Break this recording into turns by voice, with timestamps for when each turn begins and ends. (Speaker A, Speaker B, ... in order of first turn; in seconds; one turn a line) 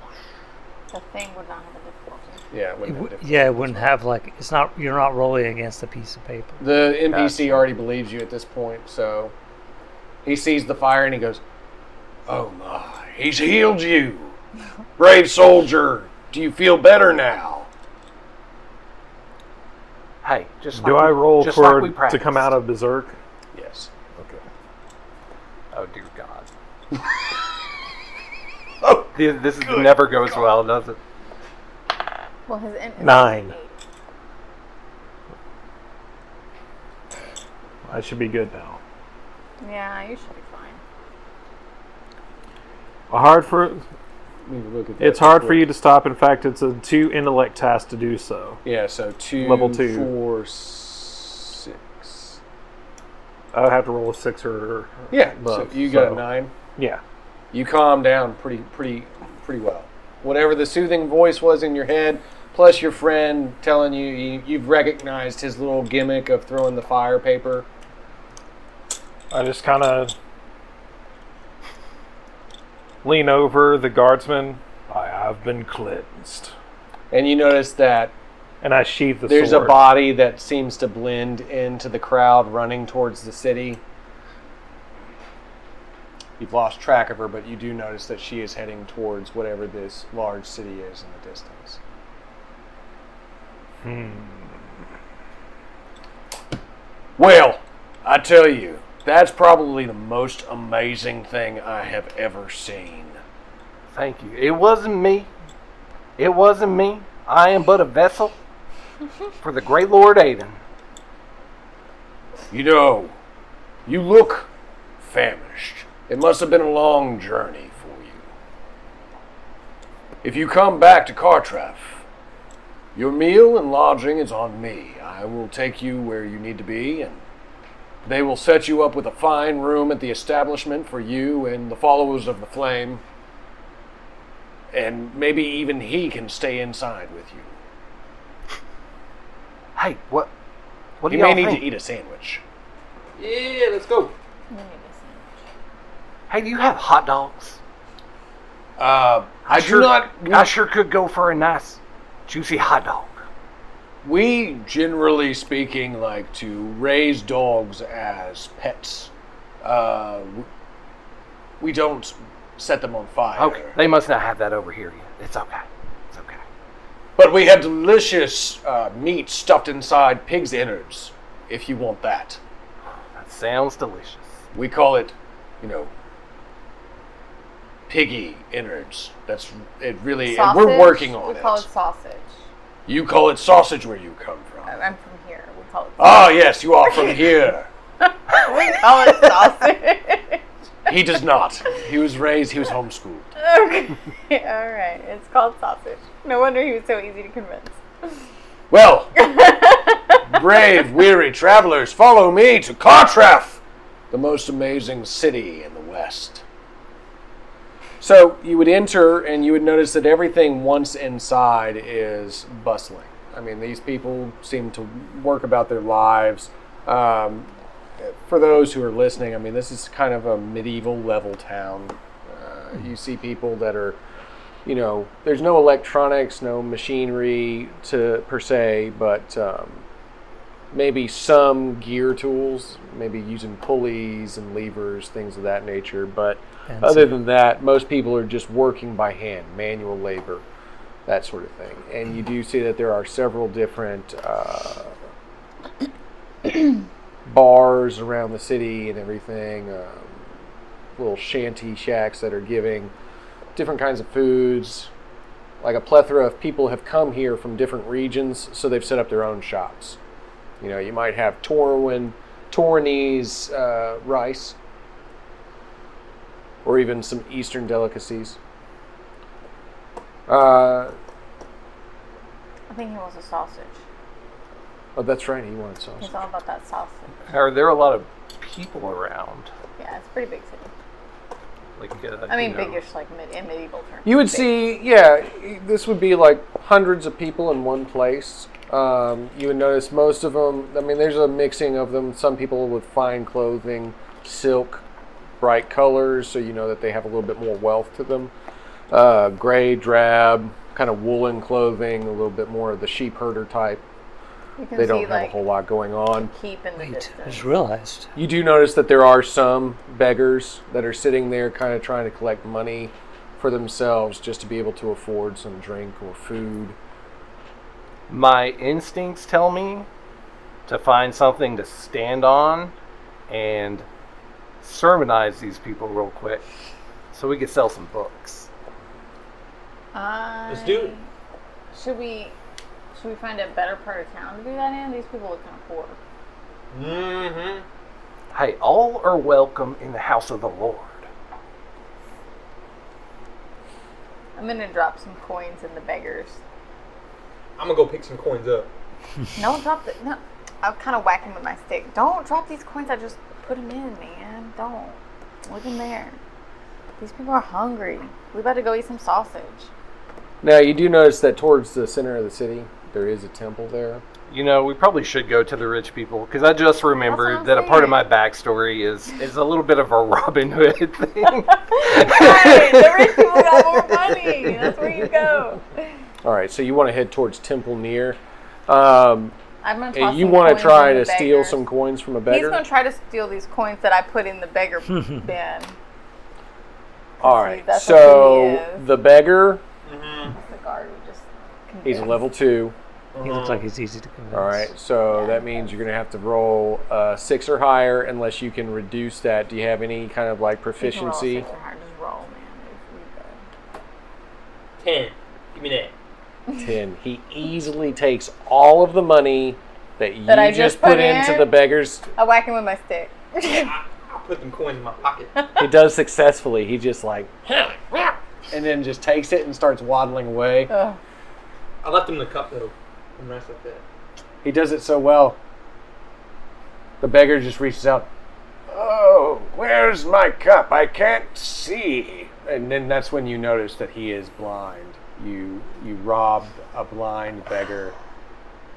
Speaker A: 0.9-2.4
Speaker B: 2.5-3.9
Speaker C: 2.9-6.6
Speaker B: 6.6-9.3
Speaker D: 7.1-7.7
Speaker B: 10.2-11.4
Speaker B: 12.3-14.4
Speaker B: 15.0-17.7
Speaker D: 20.2-22.5
Speaker E: 20.7-23.2
Speaker B: 23.5-23.9
Speaker D: 25.7-26.5
Speaker B: 28.8-30.4
Speaker D: 29.1-31.0
Speaker A: 32.5-33.8
Speaker E: 33.0-33.5
Speaker E: 37.9-38.8
Speaker A: 39.6-40.8
Speaker E: 43.1-43.8
Speaker B: 44.4-45.7
Speaker E: 45.0-48.6
Speaker B: 48.6-52.4
Speaker E: 49.4-50.1
Speaker E: 53.5-56.2
Speaker B: 55.1-56.5
Speaker E: 56.8-57.0
Speaker B: 57.5-67.7
Speaker E: 69.3-70.1
Speaker E: 73.0-76.5
Speaker B: 77.1-78.1
Speaker E: 78.6-79.8
Speaker B: 79.3-83.8
Speaker B: 86.4-91.8
Speaker E: 93.8-94.5
Speaker B: 97.2-103.2
Speaker D: 103.9-105.3
Speaker D: 106.2-108.4
Speaker D: 109.4-110.6
Speaker B: 112.5-113.2
Speaker B: 113.8-114.5
Speaker B: 115.0-118.3
Speaker B: 120.2-122.0
Speaker B: 122.9-127.2
Speaker B: 128.0-133.0
Speaker B: 134.7-137.6
Speaker D: 139.8-140.3
Speaker D: 141.0-141.7
Speaker B: 141.1-142.4
Speaker F: 143.2-144.1
Speaker A: 144.5-145.2
Speaker D: 146.3-147.6
Speaker B: 148.8-150.5
Speaker D: 149.4-153.2
Speaker B: 154.0-159.1
Speaker B: 159.6-160.5
Speaker B: 161.6-163.8
Speaker D: 163.3-166.4
Speaker B: 167.2-172.4
Speaker D: 173.2-174.4
Speaker B: 174.5-175.9
Speaker B: 177.9-181.7
Speaker A: 180.2-182.4
Speaker B: 182.8-184.8
Speaker A: 184.7-187.2
Speaker B: 186.0-187.7
Speaker A: 188.0-190.4
Speaker B: 190.9-193.3
Speaker A: 193.4-197.7
Speaker B: 198.7-199.1
Speaker A: 199.2-200.6
Speaker B: 200.3-206.4
Speaker B: 208.0-224.0
Speaker B: 224.6-229.8
Speaker B: 230.7-240.4
Speaker C: 236.7-237.1
Speaker B: 241.1-244.9
Speaker B: 246.4-250.3
Speaker B: 251.0-252.9
Speaker B: 253.5-254.9
Speaker B: 255.6-260.0
Speaker B: 260.6-264.6
Speaker B: 266.6-268.4
Speaker B: 270.3-270.9
Speaker A: 272.7-273.8
Speaker B: 274.9-276.2
Speaker A: 276.0-277.1
Speaker D: 277.3-279.5
Speaker A: 279.8-280.7
Speaker D: 281.8-282.8
Speaker A: 282.3-284.5
Speaker B: 284.0-294.8
Speaker B: 295.4-298.3
Speaker B: 298.9-303.8
Speaker A: 304.6-305.4
Speaker B: 304.8-306.3
Speaker A: 306.3-307.5
Speaker C: 306.8-308.1
Speaker B: 308.1-316.8
Speaker D: 318.1-319.9
Speaker D: 320.7-322.7
Speaker D: 323.3-323.9
Speaker D: 324.6-326.4
Speaker D: 327.1-328.5
Speaker A: 329.9-331.1
Speaker F: 330.5-330.9
Speaker A: 331.7-332.4
Speaker A: 332.9-336.0
Speaker F: 336.7-337.6
Speaker D: 338.3-341.1
Speaker A: 344.4-346.4
Speaker F: 347.6-348.7
Speaker A: 349.4-356.2
Speaker A: 357.0-359.7
Speaker B: 360.4-364.0
Speaker D: 364.3-374.7
Speaker A: 367.1-368.1
Speaker A: 371.5-375.9
Speaker B: 376.2-379.3
Speaker A: 379.6-381.6
Speaker B: 379.9-382.6
Speaker A: 382.3-385.7
Speaker B: 387.2-389.6
Speaker A: 387.2-388.8
Speaker F: 389.8-390.4
Speaker A: 390.4-392.2
Speaker B: 391.8-392.7
Speaker F: 393.1-393.7
Speaker C: 393.2-394.7
Speaker B: 394.3-401.4
Speaker A: 395.1-395.8
Speaker A: 400.8-403.4
Speaker F: 404.8-405.9
Speaker B: 406.6-412.0
Speaker A: 410.3-411.6
Speaker A: 412.1-413.7
Speaker F: 413.5-415.3
Speaker A: 415.4-415.6
Speaker B: 415.6-420.7
Speaker A: 420.7-421.0
Speaker F: 421.8-423.8
Speaker B: 424.4-425.4
Speaker B: 427.0-428.1
Speaker B: 428.7-437.9